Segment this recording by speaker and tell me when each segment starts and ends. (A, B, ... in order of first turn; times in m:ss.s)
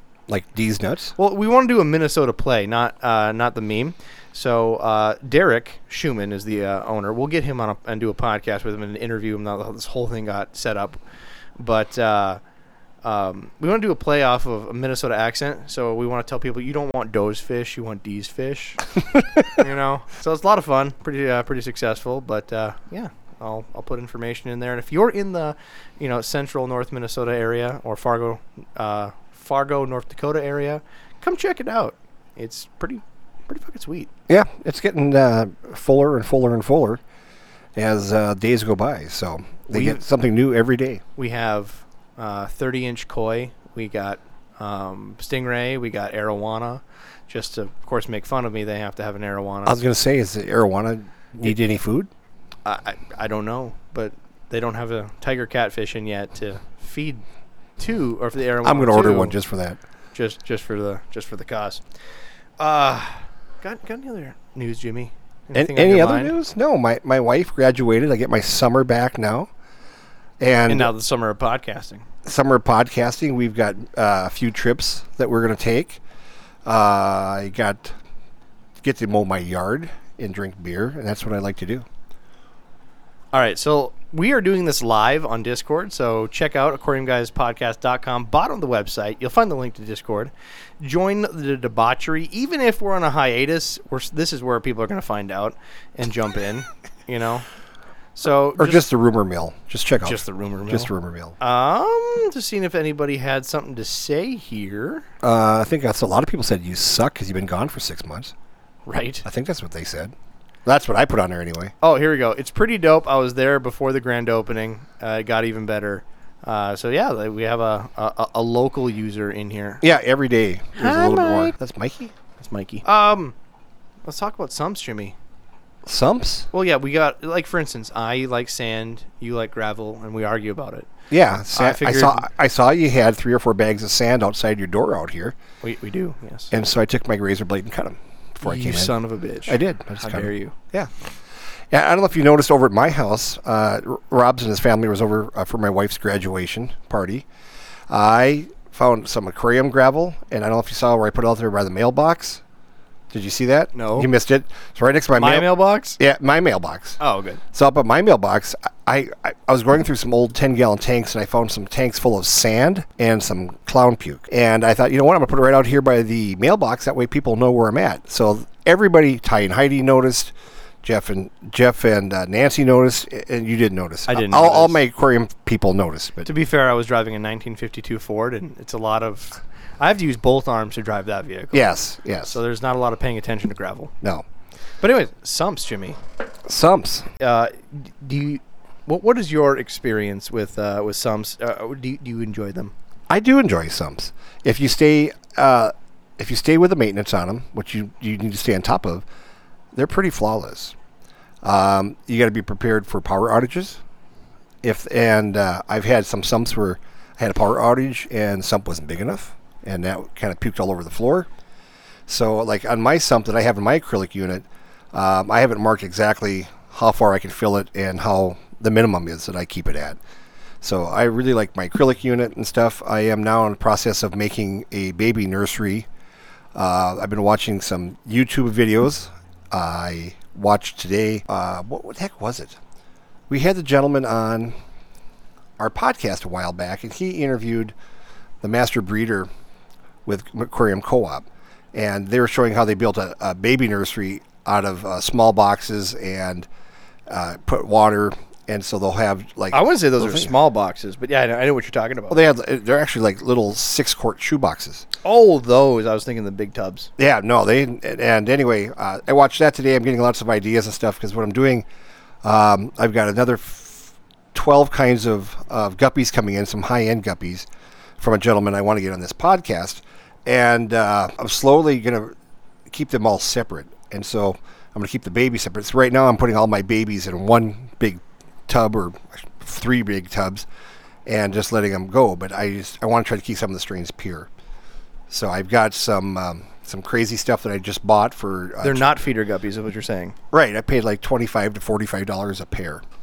0:00.3-0:01.1 A
0:01.2-0:11.0 B
0:11.6-0:12.4 B
0:13.0-0:18.8 B
0:19.4-0:34.1 B
0:34.3-0:37.0 A
0:37.8-0:41.0 A
0:39.7-0:40.0 B
0:41.2-0:49.8 B
0:49.6-0:52.1 A
0:52.6-0:57.2 B
0:57.8-0:59.4 B
0:58.6-0:59.8 A
1:00.1-1:01.8 B
1:02.6-1:06.4 B
1:05.6-1:09.5 A
1:10.4-1:10.9 A
1:10.7-1:12.0 B
1:12.2-1:16.0 A
1:16.6-1:18.0 A
1:18.8-1:21.8 A
1:23.3-1:37.5 B
1:38.2-1:38.8 B
1:38.6-1:41.4 A
1:40.0-1:45.1 B
1:45.2-1:48.3 A
1:48.9-1:49.2 B
1:49.2-1:50.1 A
1:50.7-1:51.7 A
1:51.8-1:59.9 B
1:59.8-2:02.1 A
2:00.8-2:01.5 B
2:02.4-2:03.3 B
2:04.0-2:05.2 B
2:05.9-2:06.5 A
2:06.5-2:10.9 B
2:11.1-2:15.4 A
2:11.5-2:12.3 B
2:15.6-2:16.5 B
2:16.5-2:18.9 A
2:18.4-2:20.6 B
2:19.5-2:20.9 A
2:21.7-2:27.2 A
2:27.9-2:32.4 A
2:33.1-2:37.0 A
2:33.7-2:34.1 B
2:35.2-2:36.0 B
2:37.0-2:37.4 B
2:37.5-2:56.3 A
2:54.1-2:54.8 B
2:56.3-3:01.7 B
3:01.5-3:02.4 A
3:02.3-3:03.9 B
3:04.8-3:06.0 B
3:06.5-3:07.1 A
3:07.2-3:12.7 B
3:13.1-3:19.0 A
3:19.7-3:20.8 A
3:21.4-3:23.8 A
3:24.6-3:31.3 A
3:32.1-3:40.0 A
3:40.6-3:45.9 A
3:46.6-3:52.6 A
3:53.3-3:54.5 A
3:55.6-3:57.7 A
3:58.4-3:59.3 A
4:00.1-4:06.5 A
4:07.1-4:10.3 A
4:09.5-4:12.2 B
4:12.1-4:14.8 A
4:15.0-4:16.9 B
4:17.0-4:21.6 A
4:22.2-4:27.5 A
4:28.0-4:32.1 A
4:32.7-4:40.5 A
4:41.1-4:44.3 A
4:45.1-4:48.9 A
4:48.6-4:50.2 B
4:50.3-4:52.8 A